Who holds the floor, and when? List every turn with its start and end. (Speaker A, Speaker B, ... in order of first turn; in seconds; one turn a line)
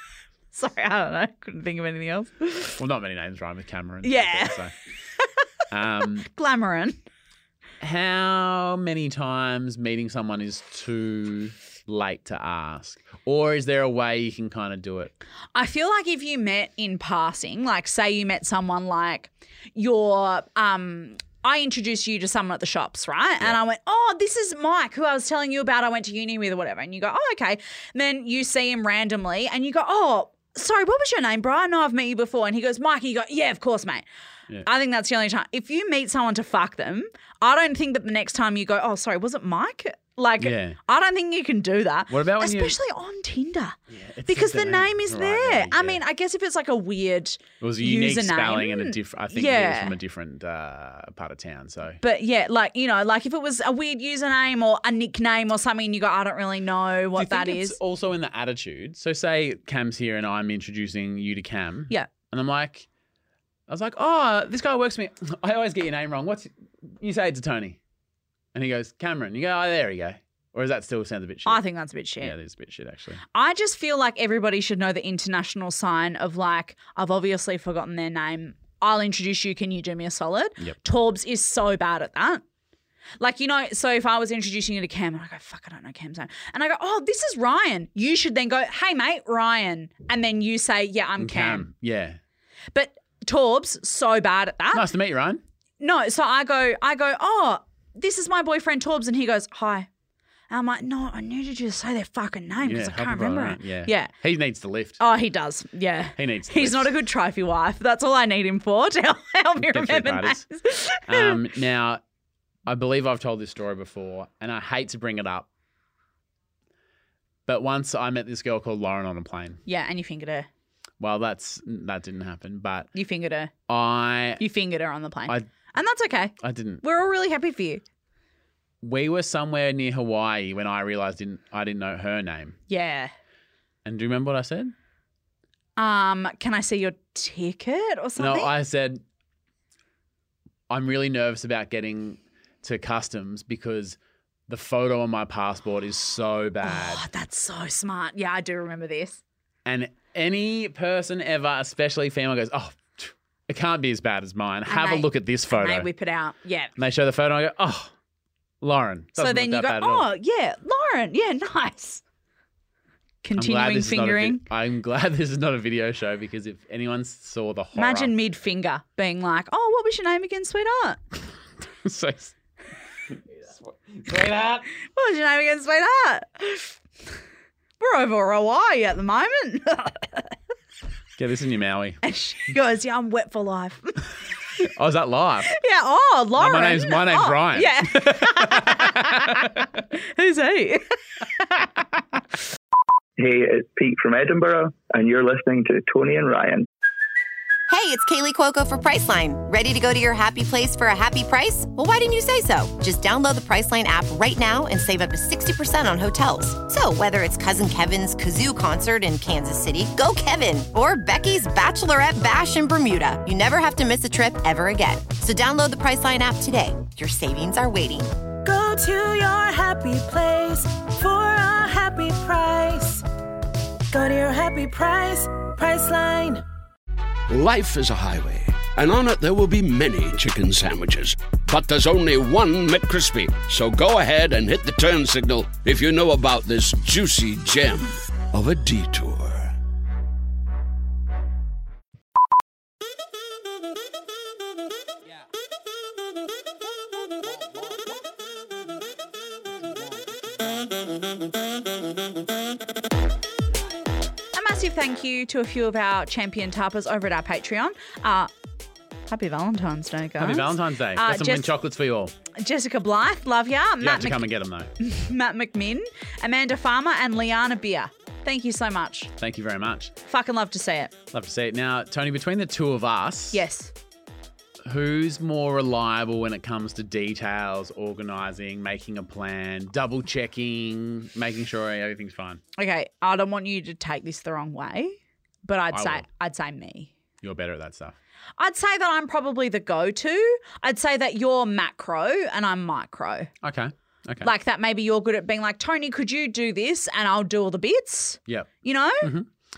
Speaker A: 0.5-2.8
Speaker B: 2.8-4.7
Speaker A: 4.0-4.6
Speaker B: 5.7-6.3
Speaker A: 6.2-7.0
Speaker B: 7.8-15.1
Speaker A: 15.5-34.0
Speaker A: 34.6-50.0
Speaker B: 40.4-40.8
Speaker B: 42.1-42.8
Speaker B: 43.9-46.0
Speaker B: 47.6-52.0
Speaker A: 52.0-57.8
Speaker B: 57.1-62.9
Speaker B: 63.7-67.8
Speaker B: 68.5-71.6
Speaker A: 71.5-72.3
Speaker B: 72.2-73.2
Speaker A: 73.3-82.4
Speaker A: 83.2-91.7
Speaker B: 91.2-92.2
Speaker A: 92.7-94.9
Speaker B: 94.7-95.4
Speaker A: 95.8-99.9
Speaker A: 100.5-104.1
Speaker B: 102.6-105.0
Speaker A: 105.0-111.4
Speaker B: 106.2-106.9
Speaker B: 109.6-110.5
Speaker B: 111.1-112.0
Speaker B: 112.7-115.5
Speaker B: 117.5-119.6
Speaker A: 119.7-120.5
Speaker B: 121.0-122.9
Speaker A: 122.9-123.5
Speaker B: 123.7-124.4
Speaker A: 124.4-127.8
Speaker B: 126.4-126.8
Speaker B: 128.8-132.6
Speaker A: 132.7-133.1
Speaker B: 133.8-134.7
Speaker A: 135.8-138.5
Speaker B: 138.2-139.0
Speaker B: 140.7-147.1
Speaker A: 146.6-149.2
Speaker B: 149.6-155.9
Speaker A: 154.7-156.7
Speaker B: 156.8-157.9
Speaker B: 158.6-160.1
Speaker A: 159.2-162.0
Speaker A: 163.2-164.4
Speaker B: 163.3-168.1
Speaker A: 167.7-171.0
Speaker B: 171.8-172.3
Speaker B: 173.1-174.7
Speaker A: 174.9-176.8
Speaker A: 177.8-180.3
Speaker B: 181.2-182.0
Speaker A: 182.0-184.1
Speaker B: 184.6-185.5
Speaker A: 185.5-191.0
Speaker B: 186.4-189.7
Speaker C: 193.2-196.7
Speaker D: 197.7-218.1
Speaker E: 218.4-223.0
Speaker E: 223.9-226.4
Speaker F: 227.3-239.5
Speaker A: 254.3-258.3
Speaker A: 259.1-261.5
Speaker B: 260.2-262.1
Speaker A: 262.3-264.3
Speaker B: 263.8-264.7
Speaker A: 264.8-269.1
Speaker B: 269.2-269.9
Speaker A: 270.0-270.9
Speaker B: 271.1-273.4
Speaker A: 273.3-273.7
Speaker B: 274.6-282.4
Speaker A: 282.6-286.9
Speaker B: 285.7-286.1
Speaker B: 287.2-287.9
Speaker A: 288.4-293.3
Speaker B: 293.4-294.3
Speaker A: 294.2-299.1
Speaker B: 298.3-299.3